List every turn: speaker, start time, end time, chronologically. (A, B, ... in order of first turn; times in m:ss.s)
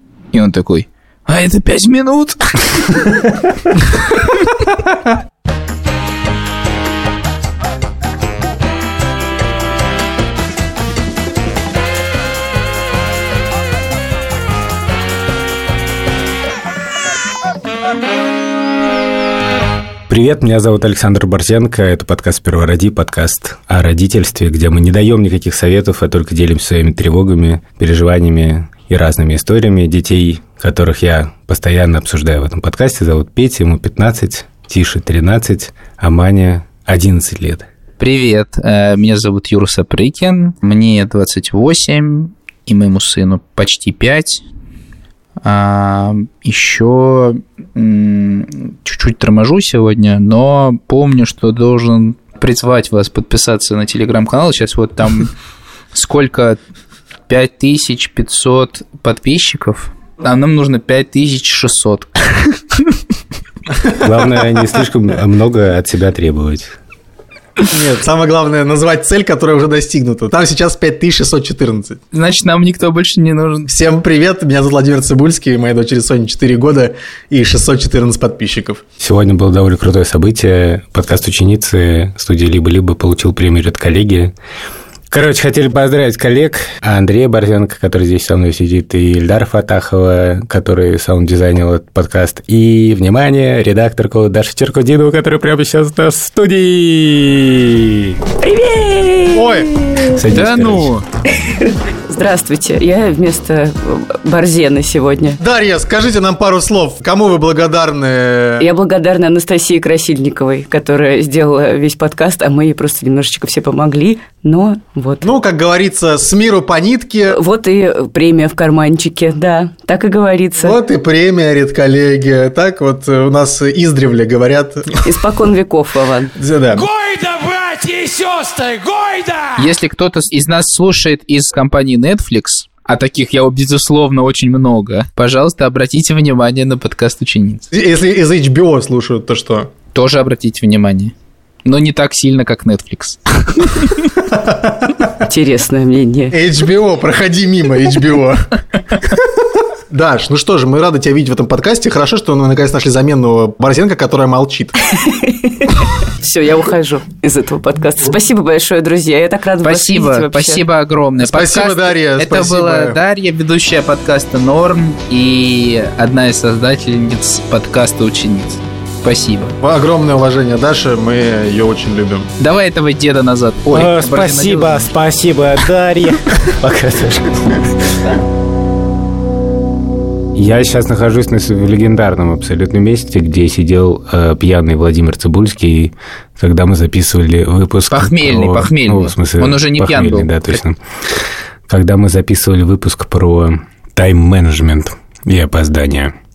0:00.3-0:03.0 A
0:20.1-0:37.7 B
0:38.0-0:44.4 A
0:45.4-0:55.3 A
0:55.9-0:56.6 A
0:57.3-1:03.0 A
1:03.8-1:04.1 C
1:04.0-1:06.8 B
1:07.7-1:12.0 C
1:12.1-1:13.7 A
1:13.7-1:18.8 C
1:19.0-1:24.3 B
1:25.1-1:38.2 B
1:38.4-1:40.2 D
1:39.3-1:39.8 C
1:40.0-1:40.9 B
1:40.3-1:41.0 A
1:41.6-1:45.4 D
1:45.4-1:48.6 C
1:48.6-1:55.3 D
1:55.2-1:57.4 C
1:57.3-2:00.8 D
2:00.6-2:05.0 C
2:05.0-2:06.3 D
2:06.4-2:06.9 C
2:06.8-2:09.5 E
2:09.6-2:17.6 A
2:17.7-2:19.7 C
2:19.9-2:21.1 A
2:21.6-2:24.0 A
2:24.2-2:25.1 C
2:25.2-2:26.4 D
2:26.3-2:29.3 C
2:29.9-2:34.8 C
2:34.9-2:40.6 D
2:39.6-2:49.6 A
2:41.2-2:43.0 C
2:49.6-2:52.3 C
2:52.4-2:54.9 A
2:53.7-2:58.1 B
3:00.3-3:16.1 B
3:07.9-3:10.6 A